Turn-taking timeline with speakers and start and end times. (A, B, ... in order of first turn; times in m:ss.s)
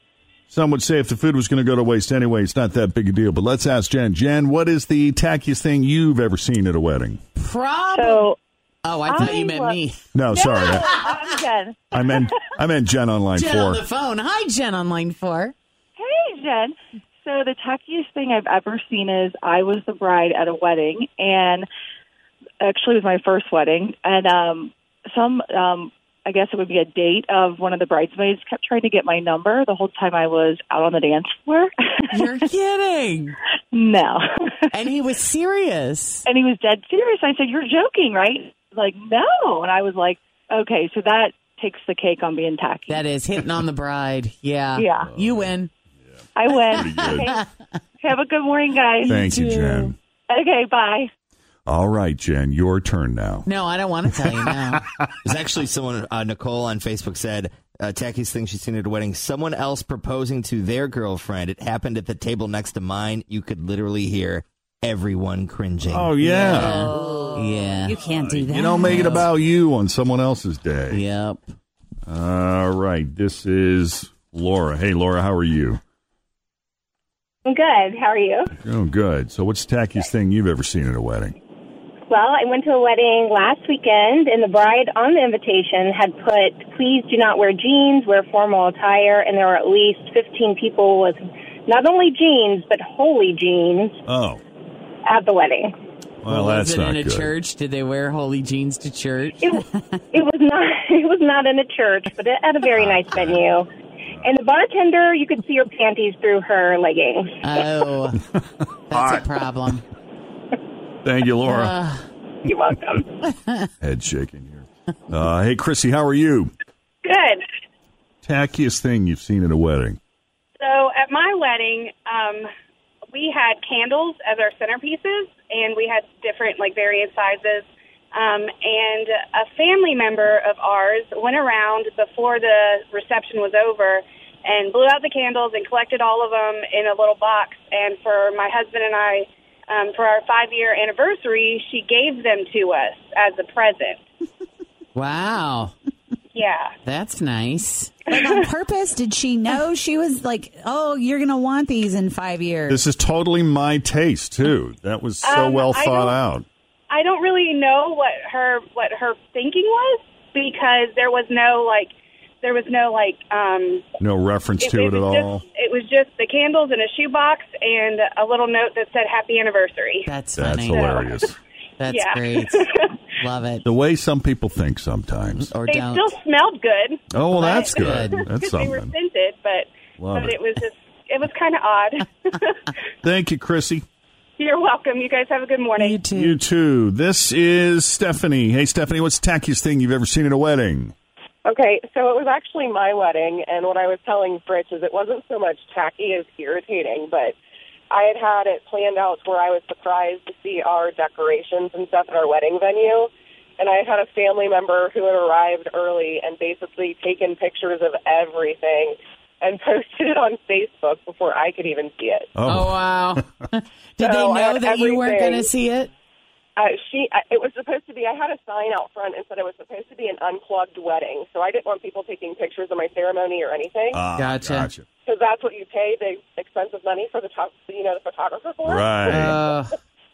0:00.5-0:07.2 A
0:07.4-0:08.3 B
0:07.9-0:08.3 C
0:08.8-0:10.1 B
0:09.1-0:12.3 C
0:10.1-0:11.0 A
0:10.9-0:11.3 B
0:11.9-0:13.8 A
0:13.3-0:15.5 B
0:16.0-0:21.7 C
0:22.6-0:32.3 C
0:32.1-0:33.4 B
0:33.7-0:34.4 C
0:34.7-0:36.2 B
0:36.2-0:43.0 C
0:42.9-0:45.7 B
0:44.8-0:45.1 C
0:45.0-0:45.5 A
0:46.4-0:47.4 C
0:46.7-0:47.4 A
0:46.8-0:47.5 B
0:48.0-0:49.3 C
0:49.0-0:50.0 A
0:50.3-0:51.1 C
0:51.7-0:53.5 A
0:53.4-0:54.8 B
0:54.2-0:55.1 A
0:55.2-1:06.2 D
1:05.8-1:07.0 A
1:06.2-1:08.0 B
1:06.4-1:09.2 E
1:08.1-1:11.0 A
1:08.9-1:09.3 B
1:10.9-1:11.5 B
1:12.1-1:15.8 A
1:17.4-1:18.5 F
1:18.5-1:21.3 A
1:22.1-1:34.0 F
1:34.0-1:34.4 A
1:35.0-1:35.7 F
1:36.2-1:37.3 A
1:36.3-1:39.4 B
1:39.4-1:43.7 F
1:42.8-1:43.3 A
1:44.2-1:47.4 F
1:47.4-1:48.2 B
1:48.9-1:49.8 B
1:48.9-1:49.2 A
1:51.0-1:51.7 A
1:51.4-1:52.0 B
1:52.4-1:53.0 F
1:53.2-1:53.7 B
1:53.8-1:56.5 A
1:57.0-1:57.4 G
1:58.2-2:00.0 A
2:00.6-2:02.5 G
2:03.1-2:24.0 G
2:24.9-2:25.7 B
2:26.3-2:26.7 G
2:26.8-2:28.1 B
2:28.1-2:32.8 E
2:32.7-2:36.4 A
2:35.2-2:36.1 G
2:36.9-2:43.8 G
2:44.0-2:45.4 A
2:44.6-2:50.1 G
2:50.0-2:51.0 B
2:50.4-2:51.4 A
2:51.8-2:53.6 B
2:51.9-2:52.9 G
2:53.6-2:55.5 A
2:55.5-2:56.1 B
2:55.7-3:02.7 G
2:57.1-2:58.9 A
2:57.3-2:58.3 B
3:00.0-3:00.4 A
3:03.0-3:03.8 A
3:04.4-3:06.0 G
3:05.8-3:06.4 B
3:06.1-3:10.9 A
3:11.4-3:17.3 H
3:17.9-3:32.3 H
3:32.3-3:33.2 A
3:32.4-3:35.9 B
3:34.0-3:35.5 H
3:36.6-3:44.0 H
3:43.9-3:44.8 A
3:44.1-3:44.7 B
3:45.0-3:49.5 H
3:48.6-3:49.4 A
3:49.1-3:49.8 B